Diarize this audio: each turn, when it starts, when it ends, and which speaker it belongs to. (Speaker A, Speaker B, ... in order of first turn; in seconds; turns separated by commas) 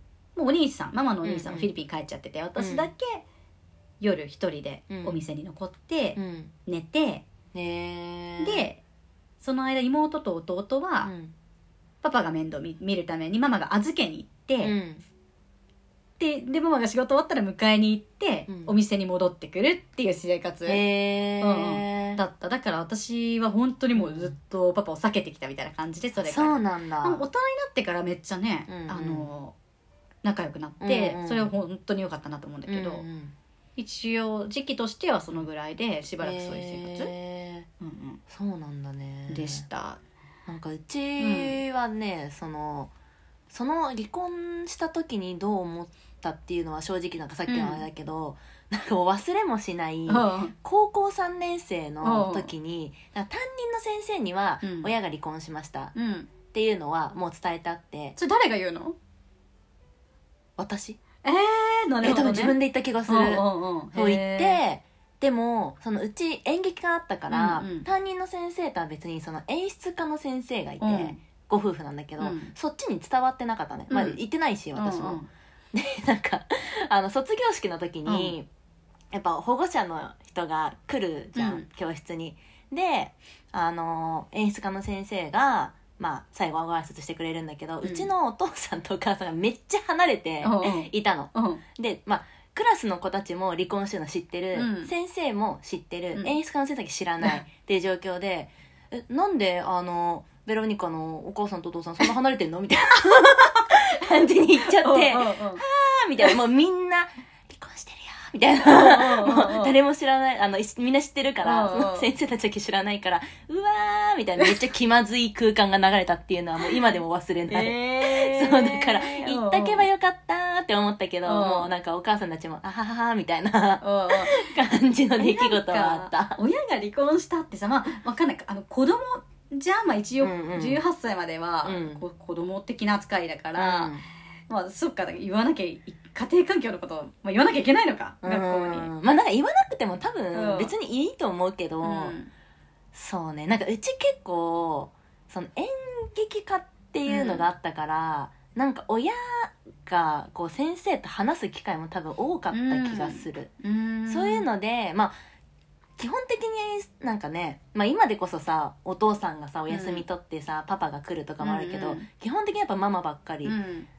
Speaker A: 0.4-3.2, Speaker B: 1.2-1.7, Speaker B: 2.6-2.9, Speaker A: 4.0-7.2, Speaker B: 4.9-5.2, Speaker B: 6.2-6.5, Speaker B: 7.5-8.7, Speaker A: 8.4-8.8, Speaker A: 9.4-11.1, Speaker B: 11.0-11.3, Speaker A: 12.0-14.7, Speaker B: 14.6-15.0, Speaker A: 16.2-20.8, Speaker B: 18.5-18.7, Speaker B: 20.7-22.2, Speaker A: 21.4-29.6, Speaker B: 23.9-24.3, Speaker B: 26.2-27.2, Speaker B: 28.7-29.3, Speaker A: 30.2-33.0, Speaker B: 30.8-31.5, Speaker B: 32.7-33.4, Speaker A: 33.8-37.1, Speaker B: 36.2-37.7, Speaker A: 37.8-38.2, Speaker B: 38.3-39.6, Speaker A: 39.3-40.0, Speaker B: 40.5-42.9, Speaker A: 41.2-41.6, Speaker B: 43.5-55.9, Speaker A: 47.5-47.9, Speaker A: 50.1-50.5, Speaker A: 52.0-52.5, Speaker A: 54.6-54.9, Speaker A: 55.9-56.3, Speaker B: 56.5-58.2, Speaker A: 58.2-59.0, Speaker B: 60.6-61.0, Speaker A: 61.2-62.6, Speaker B: 62.0-75.2, Speaker A: 63.1-64.6, Speaker A: 67.3-67.9, Speaker A: 70.8-71.2, Speaker A: 72.2-72.5, Speaker A: 73.9-74.2, Speaker A: 74.8-75.3, Speaker B: 75.7-78.5, Speaker A: 78.0-78.4, Speaker B: 79.1-126.4, Speaker A: 81.4-81.7, Speaker A: 87.8-88.1, Speaker A: 90.4-91.6, Speaker A: 94.5-94.9, Speaker A: 104.2-105.6, Speaker A: 108.6-109.8, Speaker A: 111.4-112.1, Speaker A: 117.5-119.9, Speaker A: 121.2-121.7, Speaker A: 123.8-124.5, Speaker A: 125.2-134.0, Speaker B: 130.2-130.8, Speaker B: 131.6-132.0, Speaker B: 133.6-134.0, Speaker A: 134.5-138.9, Speaker B: 138.2-142.2, Speaker A: 140.3-140.7, Speaker A: 141.8-142.3, Speaker B: 142.9-153.5, Speaker A: 147.1-147.5, Speaker A: 152.5-154.5, Speaker B: 154.1-155.1, Speaker B: 156.0-163.6, Speaker A: 159.7-160.1, Speaker A: 161.4-162.1, Speaker A: 163.4-163.9